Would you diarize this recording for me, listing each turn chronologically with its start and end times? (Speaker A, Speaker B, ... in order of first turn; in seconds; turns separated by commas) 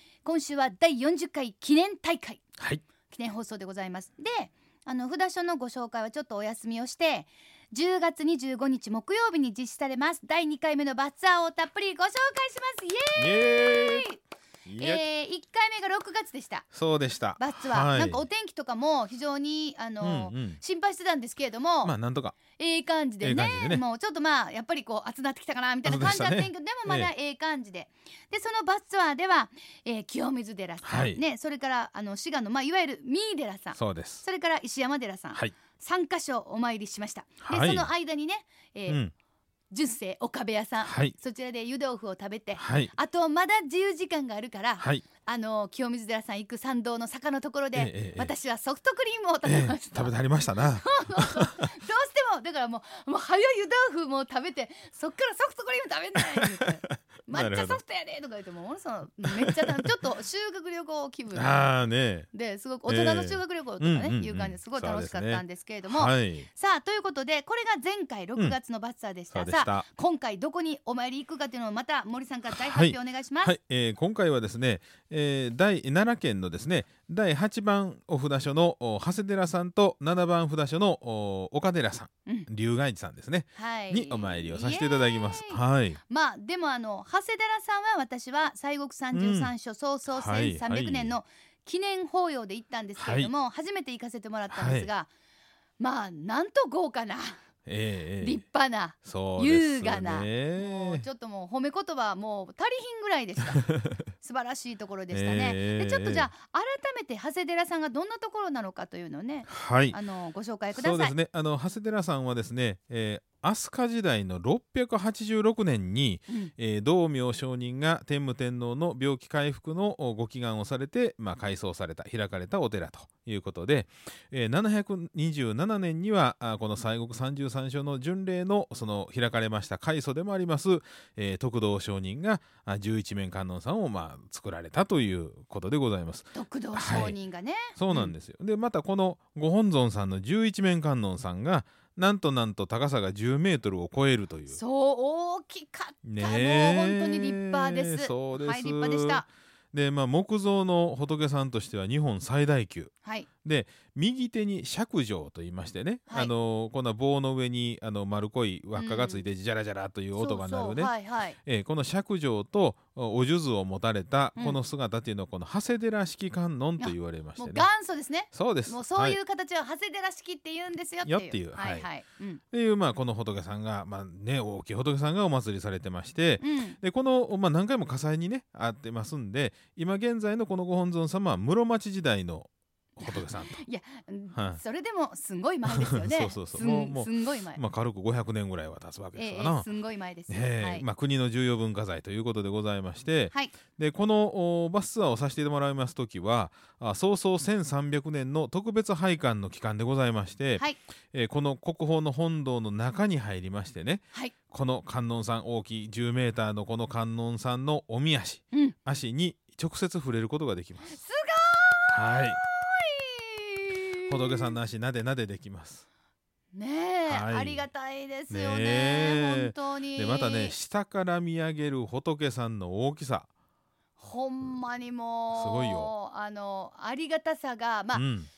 Speaker A: 0.2-2.4, Speaker A: 3.1-14.2, Speaker B: 13.2-14.1, Speaker B: 14.7-15.0, Speaker A: 14.8-16.6, Speaker B: 16.7-18.2, Speaker A: 17.4-21.9, Speaker B: 20.0-20.6, Speaker B: 21.8-22.4, Speaker A: 22.5-39.0, Speaker B: 23.2-23.8, Speaker B: 25.8-27.1, Speaker B: 30.8-31.2, Speaker B: 33.8-34.2, Speaker B: 37.4-37.9, Speaker B: 38.9-39.1, Speaker A: 39.7-61.7, Speaker B: 40.8-41.1, Speaker B: 42.5-42.9, Speaker B: 44.8-45.0, Speaker B: 47.7-48.3, Speaker B: 49.4-51.7, Speaker B: 56.6-57.8, Speaker B: 59.4-59.9, Speaker B: 61.3-62.3, Speaker A: 62.3-73.5, Speaker B: 62.9-66.5, Speaker B: 69.3-69.8, Speaker B: 72.5-86.0, Speaker A: 83.5-95.1, Speaker B: 89.1-89.5, Speaker B: 90.1-91.1, Speaker B: 93.0-93.3, Speaker B: 94.5-94.9, Speaker A: 95.8-97.4, Speaker B: 97.7-98.4, Speaker A: 98.2-111.1, Speaker B: 99.0-101.0, Speaker B: 105.1-106.3, Speaker B: 109.5-110.0, Speaker B: 110.7-137.2, Speaker A: 136.3-138.1, Speaker B: 137.7-144.6, Speaker A: 144.5-149.3, Speaker B: 146.0-152.9, Speaker B: 153.4-167.7, Speaker A: 158.7-159.3, Speaker A: 160.2-161.4, Speaker A: 166.8-172.4, Speaker B: 168.3-169.2, Speaker B: 171.0-171.9, Speaker B: 172.5-183.6, Speaker A: 176.4-176.8, Speaker A: 183.0-187.6, Speaker B: 184.3-184.6, Speaker B: 185.7-189.7, Speaker A: 189.2-190.8, Speaker B: 190.3-211.0, Speaker A: 210.8-214.5, Speaker B: 211.9-212.4, Speaker B: 214.1-215.8, Speaker A: 216.5-220.6, Speaker B: 217.1-217.7, Speaker B: 218.3-223.3, Speaker A: 224.0-228.0, Speaker B: 225.3-225.9, Speaker B: 227.9-228.3